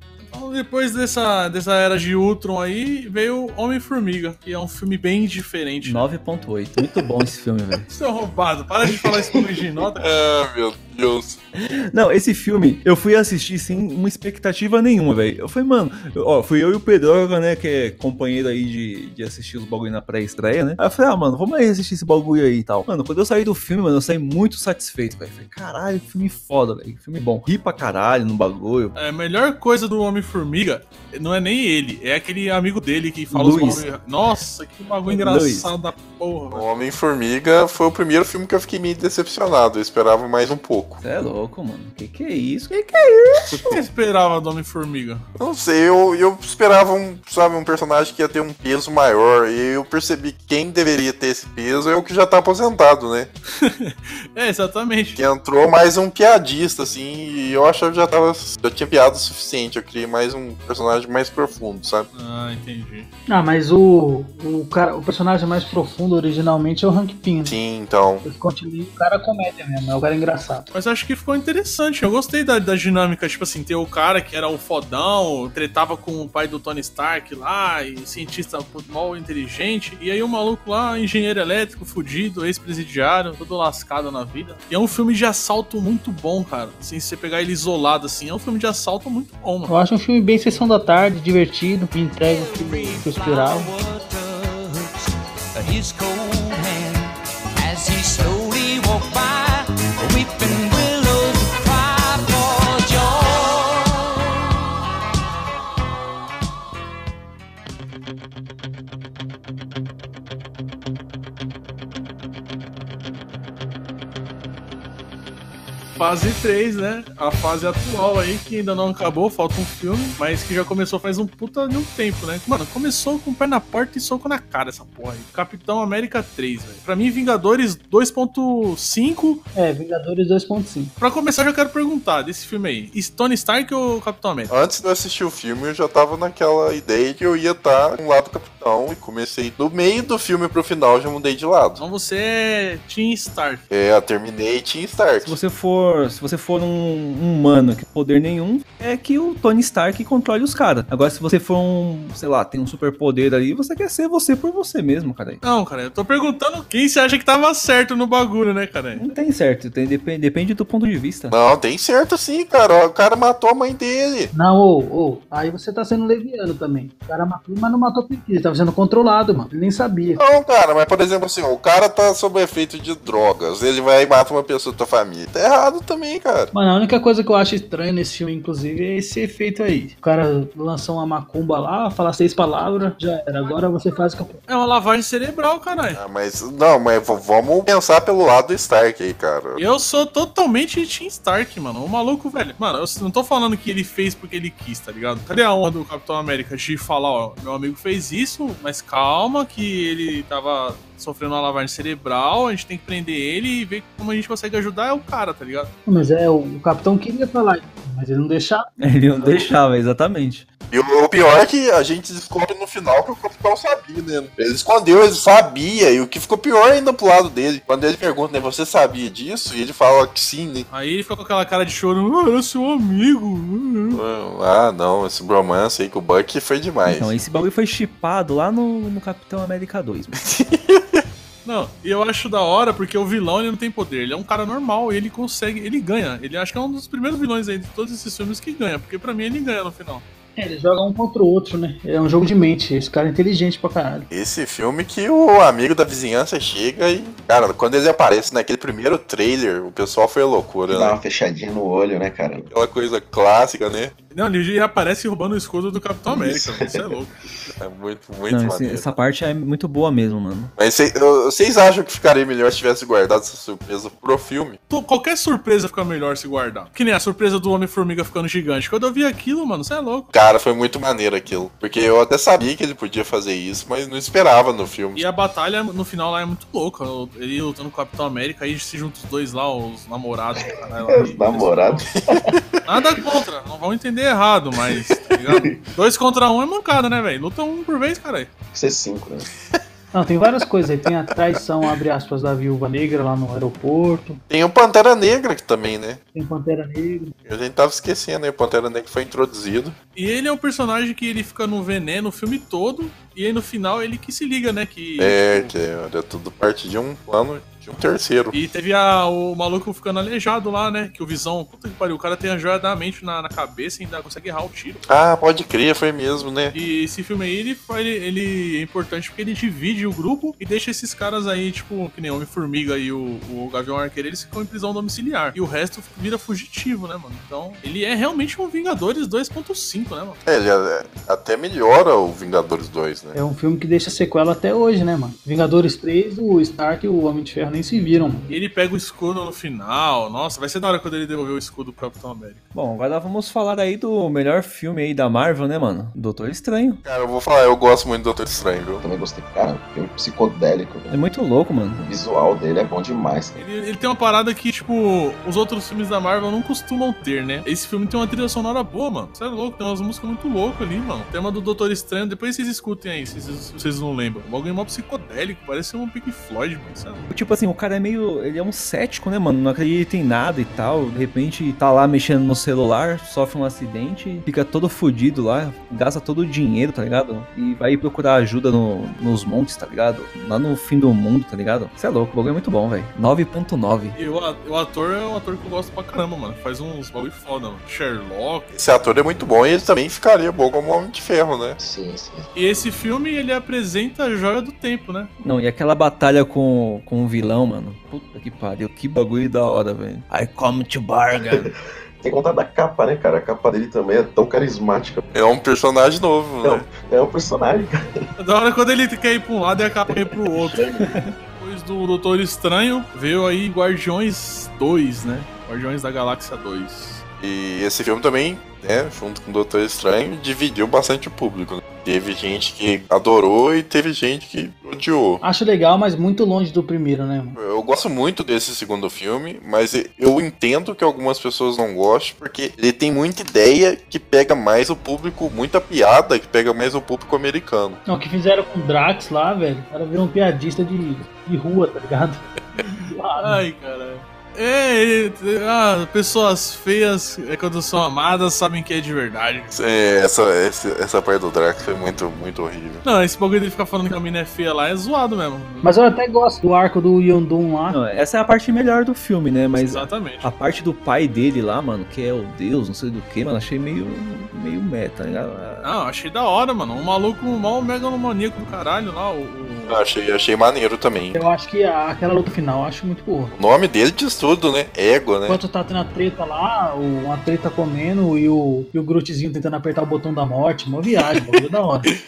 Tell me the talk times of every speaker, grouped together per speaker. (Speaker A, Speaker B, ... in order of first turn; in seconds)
Speaker A: 0.3-6.0, 7.9-10.1, 28.9-36.7, 43.7-45.2, 53.6-55.2, 62.1-63.1, 70.7-89.7, 116.0-129.4, 131.0-134.5, 141.8-143.6, 155.4-159.1, 184.5-186.0, 189.6-205.7, 220.7-224.0, 231.4-240.0, 254.1-257.1, 264.7-270.1, 274.9-281.9, 282.7-288.3, 299.9-305.5, 308.3-314.8, 316.5-330.2, 338.3-342.4, 353.4-367.1, 383.9-388.5, 392.3-395.1, 408.2-410.7, 411.4-417.0, 443.2-449.5, 452.8-455.7, 459.6-460.3, 465.6-469.8
Speaker B: 5.8-7.9, 11.6-28.9, 33.3-33.9, 35.1-35.7, 41.0-43.8, 145.2-155.4, 158.9-161.3, 208.8-210.5, 226.8-230.2, 258.3-260.5, 342.5-346.8, 350.9-351.8, 367.1-383.9, 395.2-401.5, 457.7-465.7
Speaker C: 10.0-11.4, 36.5-41.0, 45.4-53.3, 55.2-62.1, 67.4-68.2, 134.5-141.8, 143.7-145.3, 161.3-164.3, 170.2-176.5, 185.9-189.6, 210.7-220.7, 223.9-227.1, 230.1-231.0, 244.1-251.0, 252.5-253.9, 257.6-258.9, 260.6-264.6, 270.1-275.0, 282.1-282.6, 294.3-296.0, 297.2-299.8, 305.0-308.3, 314.9-316.5, 330.2-333.1, 346.8-348.8, 388.5-391.6, 405.1-406.7, 417.2-425.2, 427.4-437.8, 449.5-452.8, 469.6-471.2, 473.3-475.4
Speaker D: 63.3-67.6, 68.2-70.7, 89.7-93.7, 129.5-130.9, 164.3-170.2, 176.5-184.4, 205.8-208.6, 240.3-244.1, 289.9-294.2, 296.1-297.1, 333.1-338.3, 425.2-427.4, 437.9-443.4, 455.6-457.8, 471.1-473.3, 475.2-481.9
Speaker E: 92.2-104.3
Speaker F: 250.7-252.5, 256.1-257.3, 280.3-282.2, 285.3-285.5, 288.5-289.3, 348.8-351.0, 351.8-353.4, 391.6-392.3, 401.2-405.0, 406.4-408.1, 409.9-411.1